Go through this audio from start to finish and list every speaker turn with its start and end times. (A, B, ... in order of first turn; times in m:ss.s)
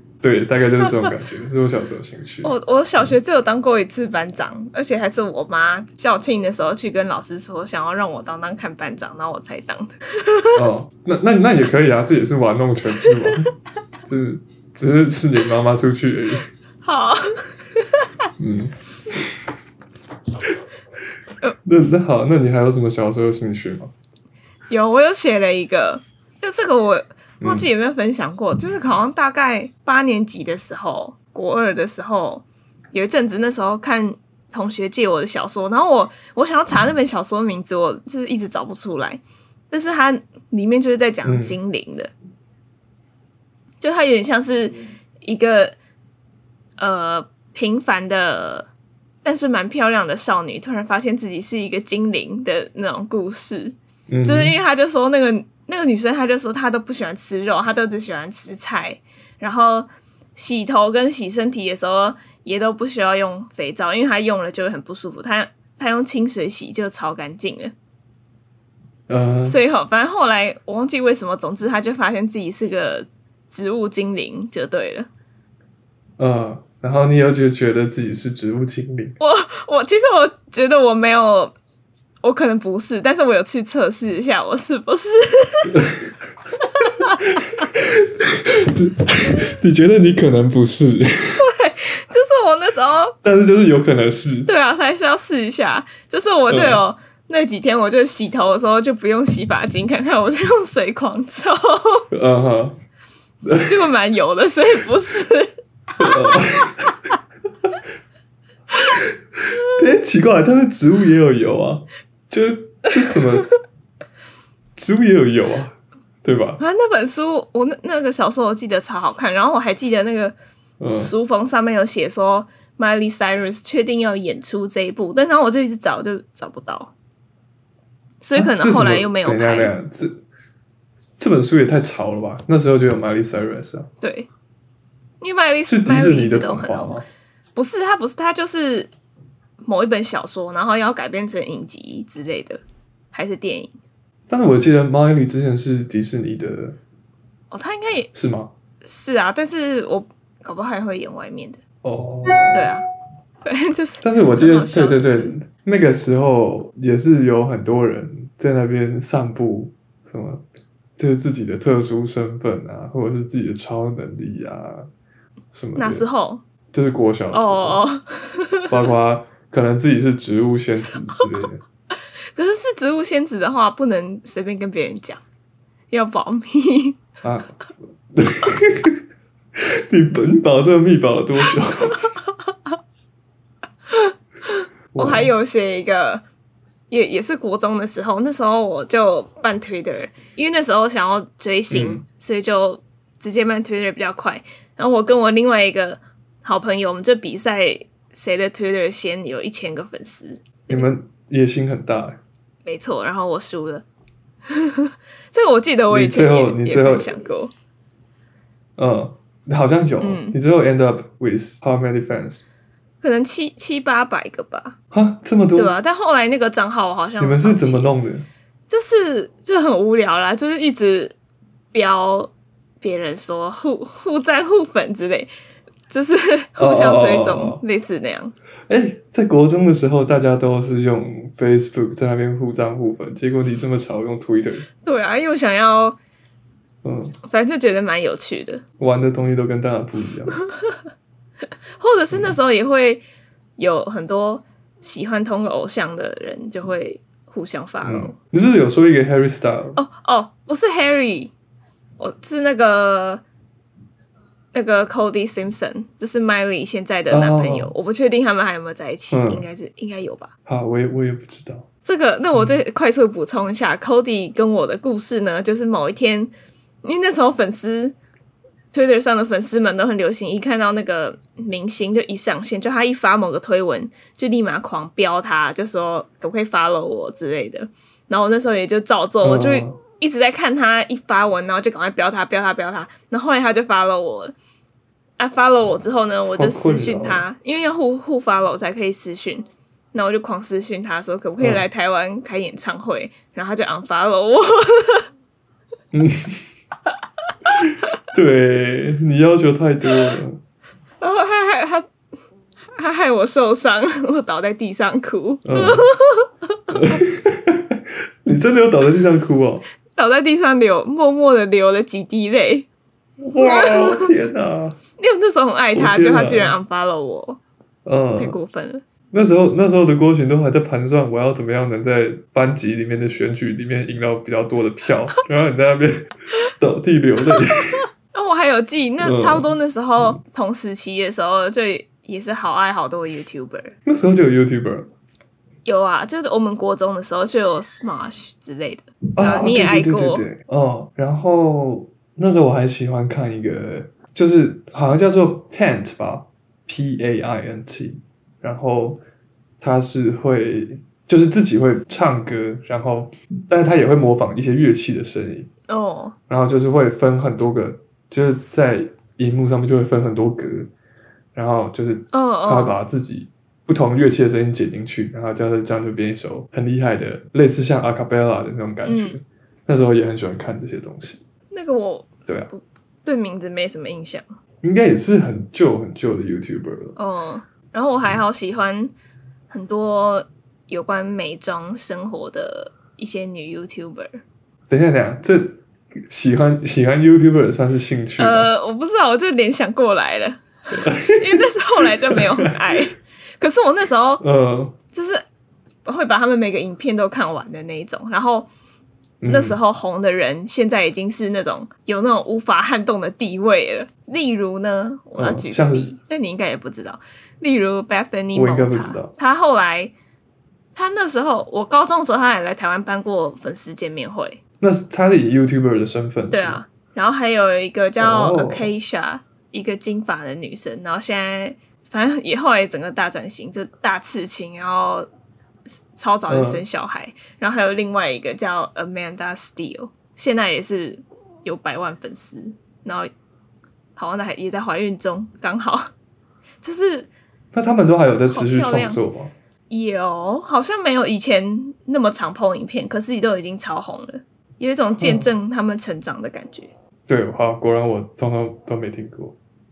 0:00.2-0:02.5 A
0:02.4-0:10.6 B
0:10.5-0:13.5 A
0:14.0-0:16.5 A
0:16.8-0:18.1 B
0:18.4-0:19.3 A
0:21.6-0:23.9 A
0:24.7-0:42.1 B
0:27.4-0:27.7 A
0:41.2-0:41.6 A
0:43.8-0:45.7 B
0:46.8-0:48.7 B
0:49.2-1:07.7 B
0:54.1-0:54.5 A
1:09.1-1:09.6 A
1:09.4-1:15.1 B
1:16.2-1:19.2 A
1:19.2-1:21.5 B
1:22.2-1:25.9 B
1:25.7-1:26.0 A
1:26.7-1:27.4 B
1:27.2-1:31.5 A
1:31.4-1:33.2 B
1:33.2-1:34.5 A
1:34.4-1:42.0 B
1:36.5-1:36.8 A
1:42.1-1:42.8 A
1:43.4-1:43.8 A
1:43.6-1:46.7 B
1:46.0-1:46.9 A
1:49.4-1:53.5 A
1:54.7-1:56.6 A
1:56.6-2:00.4 B
2:00.8-2:01.1 A
2:01.0-2:06.9 B
2:08.2-2:09.7 B
2:08.3-2:10.2 A
2:11.2-2:13.9 A
2:14.0-2:14.3 B
2:15.2-2:17.0 B
2:15.7-2:17.1 A
2:17.5-2:18.9 B
2:19.6-2:22.6 B
2:23.1-2:23.7 B
2:24.3-2:26.8 A
2:27.5-2:28.1 B
2:28.1-2:28.5 A
2:28.8-2:31.6 B
2:31.8-2:32.7 A
2:32.5-2:32.8 B
2:33.4-2:35.4 B
2:34.0-2:40.4 A
2:41.0-2:44.9 A
2:45.5-2:46.1 A
2:45.8-2:46.4 B
2:46.7-2:47.8 A
2:47.3-2:48.7 B
2:48.7-2:51.6 A
2:52.3-2:55.2 B
2:55.9-2:57.0 B
2:57.2-2:57.6 A
2:58.1-2:59.0 A
2:59.6-3:02.1 A
3:03.9-3:06.2 B
3:04.9-3:05.3 A
3:06.9-3:20.9 B
3:11.7-3:12.0 A
3:20.7-3:22.2 A
3:22.6-3:23.8 B
3:24.5-3:27.5 B
3:25.9-3:27.2 A
3:28.8-3:32.4 A
3:30.0-3:30.4 B
3:33.0-3:34.8 B
3:34.9-3:35.7 A
3:35.5-3:37.9 B
3:37.2-3:38.3 A
3:38.7-3:41.1 B
3:41.7-3:45.3 B
3:45.9-3:48.3 B
3:46.6-3:47.6 A
3:48.7-3:54.7 A
3:54.8-3:56.0 B
3:56.8-3:57.2 A
3:57.2-3:58.6 B
3:58.8-4:00.4 A
4:01.8-4:03.0 B
4:03.6-4:08.1 B
4:07.8-4:09.8 A
4:09.8-4:11.3 B
4:12.0-4:13.2 B
4:14.5-4:20.3 B
4:17.1-4:17.7 A
4:19.1-4:19.4 A
4:20.4-4:21.6 A
4:21.8-4:26.3 B
4:26.8-4:28.0 B
4:28.7-4:44.3 B
4:39.2-4:39.8 A
4:45.2-4:55.0 B
4:46.3-4:47.3 A
4:55.9-4:56.5 A
4:57.6-5:00.4 A
5:01.0-5:01.9 B
5:02.8-5:06.3 B
5:05.4-5:05.9 A
5:06.7-5:09.6 A
5:09.9-5:12.7 B
5:13.2-5:14.8 A
5:13.4-5:14.1 B
5:15.0-5:17.4 B
5:15.7-5:16.6 A
5:17.8-5:18.4 A
5:18.2-5:18.8 B
5:19.1-5:27.8 A
5:28.1-5:33.7 B
5:29.0-5:30.2 A
5:33.8-5:34.9 A
5:35.6-5:40.2 B
5:39.1-5:49.0 A
5:49.6-5:55.5 A
5:55.7-5:56.1 B
5:56.3-6:00.7 A
6:01.3-6:11.2 A
6:02.1-6:02.8 B
6:08.8-6:09.2 B
6:11.5-6:14.2 B
6:14.6-6:17.0 A
6:17.0-6:18.9 B
6:19.5-6:24.2 B
6:24.7-6:28.5 A
6:28.2-6:34.2 B
6:30.7-6:32.8 A
6:34.2-6:34.8 A
6:34.9-6:35.2 B
6:35.8-6:38.5 B
6:39.2-6:39.6 A
6:39.3-6:49.9 B
6:45.2-6:46.0 A
6:48.3-6:49.1 A
6:50.7-6:54.4 B
6:54.6-6:56.6 A
6:56.3-7:05.1 B
6:58.0-6:58.7 A
7:05.9-7:13.1 B
7:06.3-7:06.6 A
7:14.0-7:15.9 B
7:16.6-7:17.1 B
7:17.5-7:19.3 A
7:18.3-7:19.0 B
7:19.7-7:26.7 B
7:25.0-7:25.2 A
7:27.1-7:29.4 A